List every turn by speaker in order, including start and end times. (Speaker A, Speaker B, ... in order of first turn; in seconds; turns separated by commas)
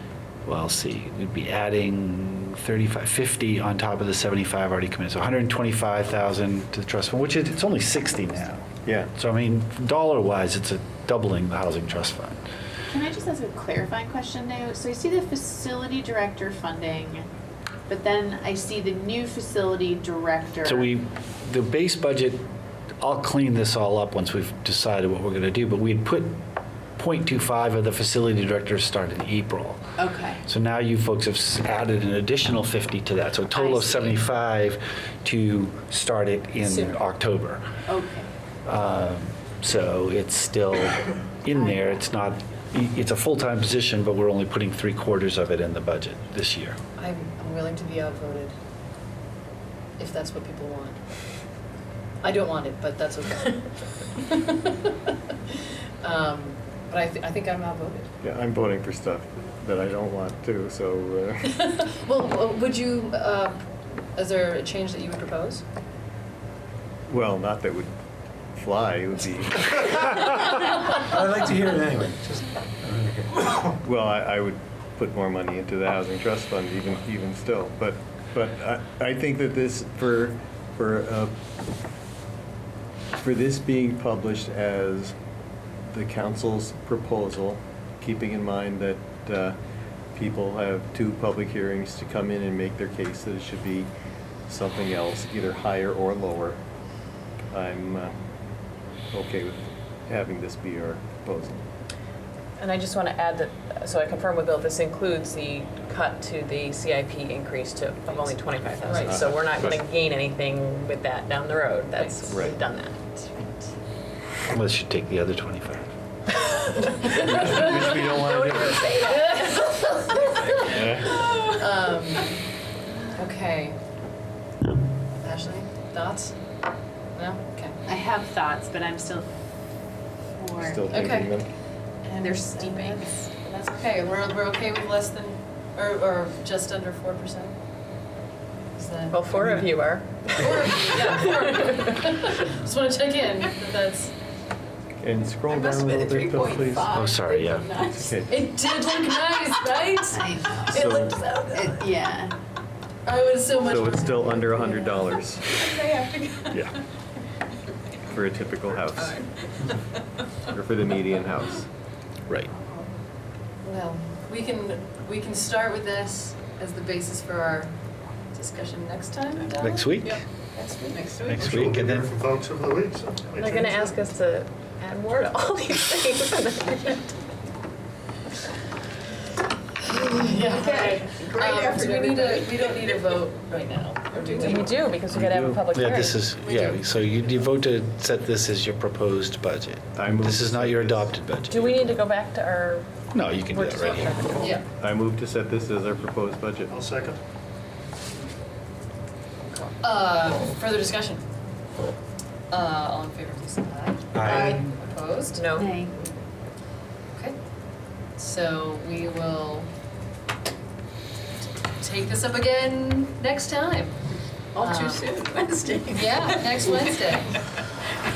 Speaker A: 0.5-12.4, Speaker B: 8.8-9.1, Speaker C: 12.9-17.3, Speaker C: 17.9-20.9, Speaker A: 20.6-22.4, Speaker A: 23.0-26.4, Speaker A: 27.0-29.8, Speaker C: 30.0-30.4, Speaker A: 30.4-37.6, Speaker C: 33.5-34.2, Speaker C: 37.9-38.3, Speaker A: 38.7-46.8, Speaker D: 47.0-48.5, Speaker D: 50.0-51.0, Speaker D: 52.2-58.1, Speaker B: 58.2-61.6, Speaker D: 61.6-65.6, Speaker B: 67.1-67.9, Speaker B: 68.5-70.3, Speaker A: 71.2-71.5, Speaker C: 71.5-72.1, Speaker B: 73.7-81.3, Speaker B: 83.1-85.1, Speaker B: 85.9-89.6, Speaker B: 90.1-93.9, Speaker B: 94.5-96.6, Speaker B: 97.5-98.2, Speaker B: 99.1-101.6, Speaker E: 102.6-113.5, Speaker D: 108.8-109.2, Speaker B: 109.0-109.8, Speaker D: 112.0-112.4, Speaker B: 112.3-112.6, Speaker A: 114.5-115.9, Speaker D: 117.0-117.9, Speaker E: 117.1-121.1, Speaker F: 117.3-119.0, Speaker B: 117.8-118.2, Speaker D: 119.0-122.4, Speaker B: 120.7-121.2, Speaker D: 123.1-123.8, Speaker D: 125.2-126.4, Speaker D: 127.1-127.8, Speaker C: 127.8-129.3, Speaker C: 130.3-130.7, Speaker B: 130.6-131.5, Speaker D: 130.9-131.3, Speaker D: 132.0-137.6, Speaker C: 132.2-133.3, Speaker D: 138.8-139.7, Speaker E: 139.1-141.7, Speaker D: 140.3-144.1, Speaker B: 145.0-146.9, Speaker C: 145.5-148.1, Speaker A: 146.8-147.8, Speaker B: 148.0-148.4, Speaker D: 148.2-151.8, Speaker C: 150.1-150.7, Speaker B: 150.7-151.2, Speaker C: 151.5-152.3, Speaker D: 153.0-155.1, Speaker B: 153.6-155.5, Speaker C: 155.9-156.5, Speaker A: 156.5-156.8, Speaker B: 158.0-159.2, Speaker B: 160.5-161.7, Speaker D: 163.6-167.7, Speaker D: 168.3-170.0, Speaker A: 169.6-170.2, Speaker D: 170.6-171.1, Speaker A: 171.2-172.2, Speaker F: 171.3-173.9, Speaker E: 173.4-177.2, Speaker D: 179.8-184.8, Speaker C: 180.5-182.9, Speaker E: 184.3-186.2, Speaker B: 185.1-185.6, Speaker A: 185.7-191.8, Speaker D: 186.4-186.8, Speaker B: 189.9-191.1, Speaker E: 191.5-192.9, Speaker A: 193.1-194.2, Speaker E: 193.4-194.6, Speaker D: 194.4-194.7, Speaker B: 194.8-196.8, Speaker F: 196.7-197.2, Speaker D: 199.7-201.2, Speaker D: 202.5-205.4, Speaker A: 204.1-204.7, Speaker E: 205.3-205.8, Speaker C: 205.6-206.1, Speaker D: 208.2-209.7, Speaker D: 211.8-214.0, Speaker C: 214.5-217.1, Speaker D: 214.6-215.1, Speaker D: 215.9-217.4